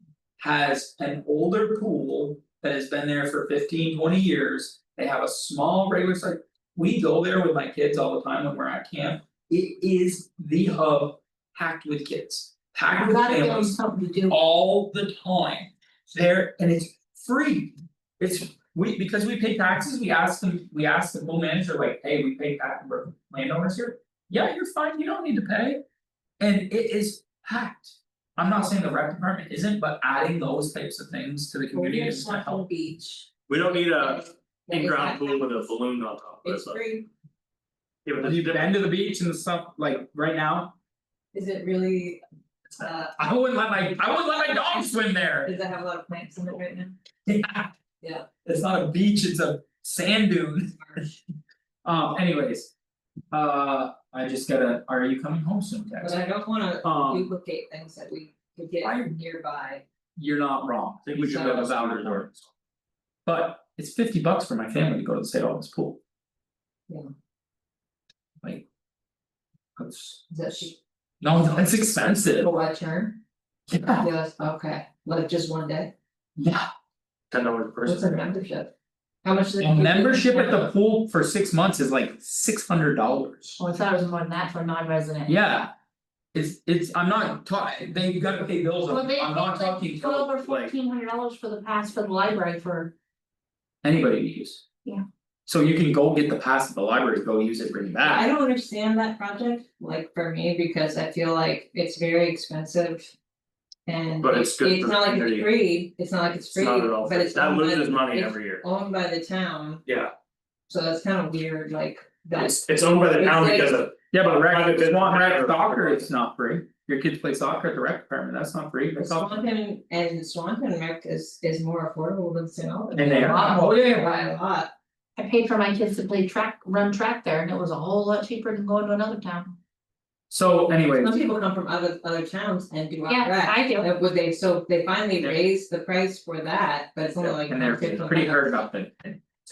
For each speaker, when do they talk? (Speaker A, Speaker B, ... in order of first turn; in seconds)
Speaker A: 0.4-25.8, 26.4-32.6, 38.2-40.8, 42.7-45.5, 47.3-47.7, 48.4-50.8, 51.8-52.7, 53.3-56.2, 56.8-57.3, 58.8-59.1, 60.2-62.3, 63.3-66.0, 69.8-70.2, 71.2-72.5, 73.7-74.1, 76.4-76.7, 79.6-83.6, 85.3-85.7, 86.3-90.7, 93.8-94.6, 95.5-98.3, 114.1-119.4, 123.0-124.1, 130.3-131.2, 137.2-139.2
Speaker B: 12.9-14.4, 83.6-85.3, 88.9-92.9, 123.0-123.6, 125.2-129.6, 133.1-133.9
Speaker C: 31.7-35.7, 36.4-37.1, 41.3-42.2, 42.8-43.2, 45.4-47.0, 48.0-48.3, 50.7-51.0, 56.0-59.8, 61.3-61.7, 70.3-70.8, 72.4-73.2, 73.9-75.9, 77.9-78.7, 79.2-80.7, 98.0-103.1, 103.9-109.8, 110.7-113.8, 119.0-124.7, 131.0-138.5
Speaker D: 33.5-36.8, 38.0-38.7, 61.0-62.5, 77.3-78.2, 104.2-105.5, 106.5-108.6, 109.8-110.1, 112.3-116.1